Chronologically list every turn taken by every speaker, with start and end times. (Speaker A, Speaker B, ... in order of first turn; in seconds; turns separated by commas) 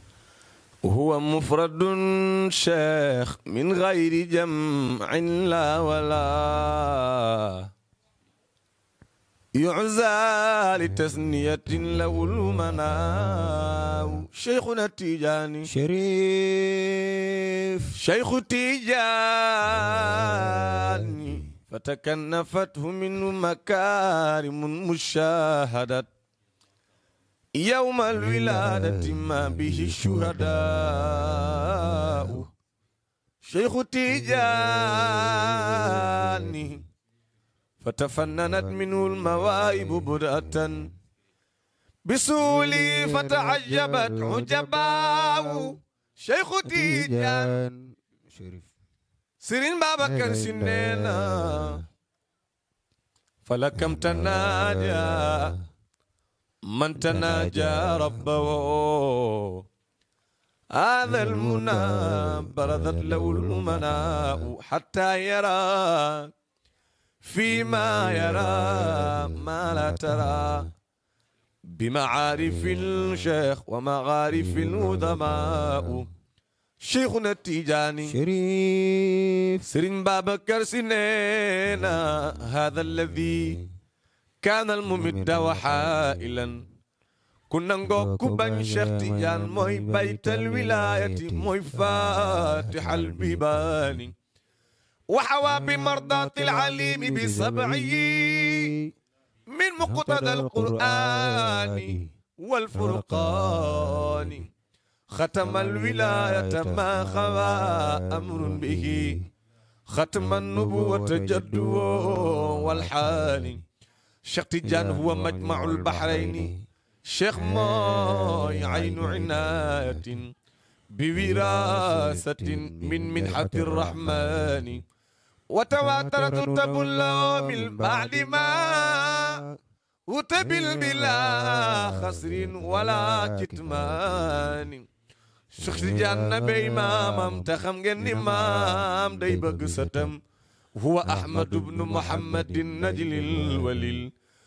Speaker A: 0.8-7.7, Speaker A: 9.6-15.7, Speaker B: 15.7-17.9, Speaker A: 17.9-26.1, Speaker A: 27.6-32.5, Speaker B: 28.1-32.4, Speaker A: 33.4-36.8, Speaker B: 34.1-36.5, Speaker A: 37.8-40.9, Speaker B: 38.5-40.7, Speaker A: 42.0-47.6, Speaker B: 42.4-45.7, Speaker B: 46.6-48.7, Speaker A: 49.4-51.8, Speaker B: 50.0-51.8, Speaker A: 53.5-55.5, Speaker B: 53.7-55.5, Speaker A: 56.7-59.6, Speaker B: 56.9-58.7, Speaker A: 60.8-66.3, Speaker B: 61.0-64.5, Speaker A: 67.2-70.7, Speaker B: 67.6-70.7, Speaker A: 71.7-76.1, Speaker B: 72.5-72.8, Speaker B: 74.3-76.0, Speaker A: 76.8-78.2, Speaker B: 78.0-79.6, Speaker A: 79.7-83.6, Speaker B: 81.7-82.0, Speaker B: 83.0-83.6, Speaker A: 84.4-86.6, Speaker B: 84.9-86.5, Speaker A: 87.5-94.1, Speaker B: 87.8-94.1, Speaker A: 95.1-98.7, Speaker B: 95.4-98.8, Speaker A: 99.5-104.5, Speaker B: 99.8-102.0, Speaker B: 102.7-104.4, Speaker A: 105.1-109.1, Speaker B: 105.4-109.2, Speaker A: 109.9-113.6, Speaker B: 110.2-113.6, Speaker A: 114.3-116.5, Speaker B: 114.6-116.5, Speaker A: 117.1-120.3, Speaker B: 117.3-120.2, Speaker A: 120.9-124.8, Speaker B: 121.1-124.8, Speaker A: 125.5-129.4, Speaker B: 125.7-129.5, Speaker A: 130.1-134.8, Speaker B: 130.3-134.7, Speaker A: 135.5-140.2, Speaker B: 135.6-140.2, Speaker A: 140.8-144.1, Speaker B: 141.0-144.1